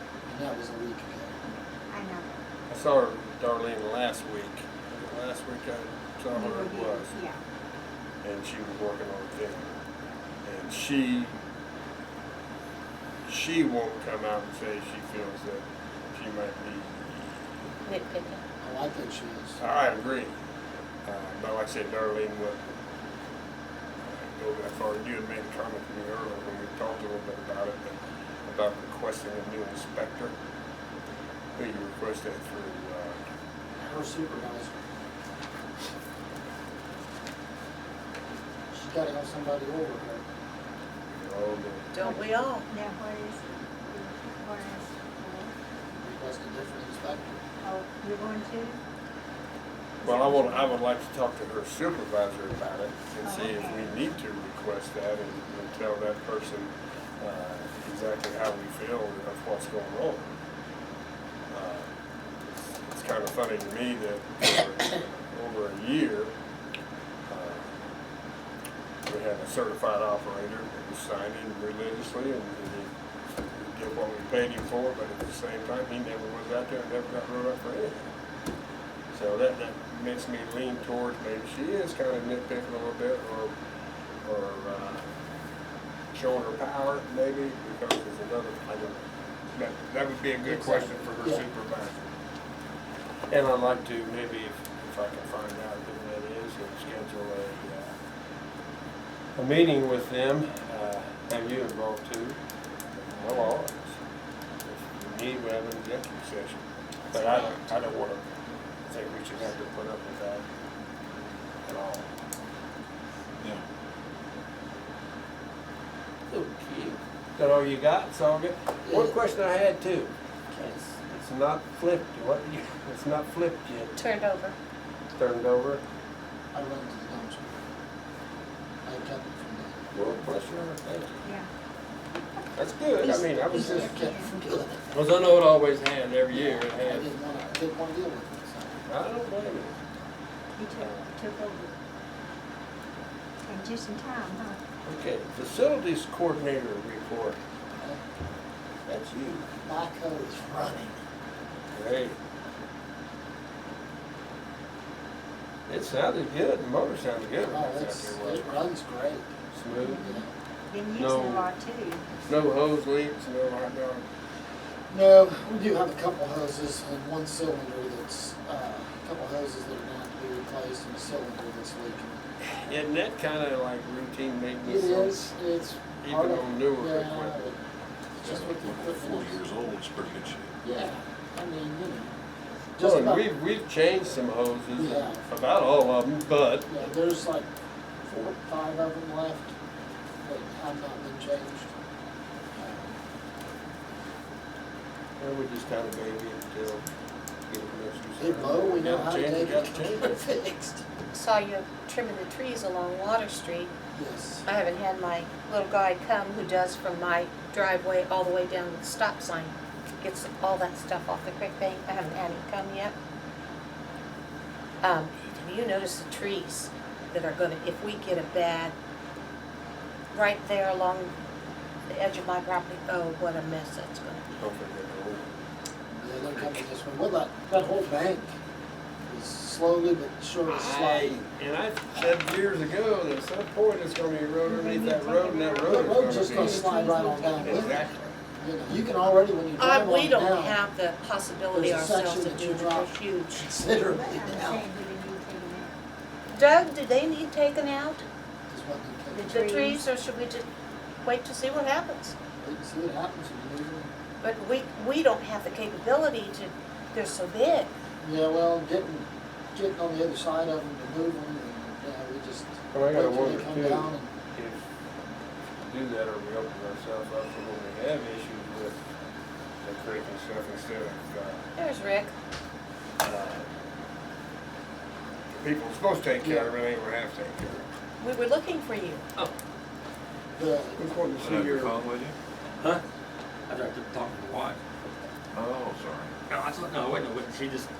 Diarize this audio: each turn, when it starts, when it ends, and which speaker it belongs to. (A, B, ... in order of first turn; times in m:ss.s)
0:00.3-0:01.4 A
0:01.9-0:02.4 B
0:02.7-0:07.1 C
0:06.3-0:07.4 B
0:08.2-0:09.8 C
0:10.4-0:11.4 C
0:13.2-0:17.4 C
0:17.8-0:18.4 D
0:18.6-0:19.6 A
0:19.6-0:20.3 C
0:21.0-0:22.6 C
0:24.0-0:30.3 C
0:31.6-0:33.2 C
0:33.8-0:34.8 A
0:38.7-0:40.2 A
0:41.1-0:41.9 C
0:41.9-0:42.7 D
0:42.0-0:45.5 B
0:45.9-0:47.4 A
0:47.6-0:48.8 B
0:50.0-0:50.8 B
0:50.0-1:00.4 C
0:53.2-0:53.9 B
1:01.5-1:01.9 C
1:02.8-1:06.3 C
1:07.3-1:07.7 C
1:09.0-1:12.9 C
1:13.5-1:18.1 C
1:19.1-1:23.5 C
1:24.2-1:25.1 C
1:26.1-1:32.1 C
1:30.4-1:31.4 A
1:33.3-1:38.0 C
1:39.4-1:42.4 C
1:43.0-1:44.0 C
1:44.6-1:48.3 C
1:48.9-1:50.4 C
1:51.6-1:52.1 C
1:53.4-1:53.6 E
1:56.3-2:04.0 C
1:58.8-1:59.1 A
2:00.5-2:00.9 A
2:04.0-2:04.6 D
2:05.2-2:05.8 C
2:06.5-2:07.6 A
2:08.8-2:09.7 A
2:09.9-2:11.2 C
2:11.2-2:11.5 B
2:12.5-2:13.9 C
2:13.0-2:14.9 A
2:13.5-2:14.3 B
2:14.9-2:17.1 C
2:16.3-2:18.8 A
2:18.9-2:19.7 C
2:20.6-2:21.7 B
2:20.8-2:21.1 C
2:23.4-2:24.6 B
2:24.8-2:27.4 C
2:28.8-2:29.5 C
2:29.6-2:31.0 A
2:31.7-2:32.2 C
2:35.7-2:38.7 C
2:37.4-2:39.3 A
2:39.5-2:40.0 C
2:39.8-2:42.0 B
2:40.0-2:40.3 A
2:40.9-2:41.5 C
2:42.3-2:44.0 C
2:44.9-2:52.2 A
2:52.4-2:55.3 C
2:54.6-2:57.6 A
2:56.0-2:57.5 C
2:58.2-2:59.4 A
2:58.2-3:00.5 E
3:00.6-3:02.1 A
3:02.8-3:03.2 A
3:02.8-3:06.7 C
3:04.7-3:05.2 A
3:06.7-3:07.5 A
3:08.0-3:09.5 A
3:10.2-3:11.7 A
3:12.5-3:12.9 A
3:15.2-3:16.9 C
3:17.5-3:20.2 C
3:18.2-3:20.8 A
3:21.1-3:23.7 D
3:23.9-3:24.5 A
3:24.4-3:32.9 D
3:34.8-3:38.7 D
3:40.1-3:41.1 D
3:41.9-3:44.3 D
3:44.4-3:45.3 C
3:45.9-3:48.3 A
3:49.0-3:51.2 A
3:50.4-3:56.6 C
3:54.4-3:57.9 B
3:55.6-3:57.8 A
3:57.4-3:58.1 C
3:58.4-4:00.6 A
3:59.6-4:03.5 D
4:01.5-4:04.6 A
4:03.9-4:05.8 B
4:06.3-4:08.0 D
4:08.5-4:09.3 A
4:09.1-4:09.8 B
4:09.2-4:10.4 D
4:11.0-4:12.1 D
4:12.4-4:13.9 A
4:14.2-4:17.7 D
4:18.0-4:24.1 A
4:22.7-4:24.6 C
4:25.6-4:28.8 C
4:29.6-4:31.4 C
4:31.6-4:32.1 D
4:33.0-4:33.5 C
4:35.3-4:37.7 C
4:36.2-4:36.5 A
4:38.0-4:39.0 D
4:40.4-4:40.9 A
4:40.8-4:41.8 C
4:41.2-4:42.2 E
4:43.5-4:44.6 F
4:45.3-4:46.1 E
4:46.3-4:47.7 F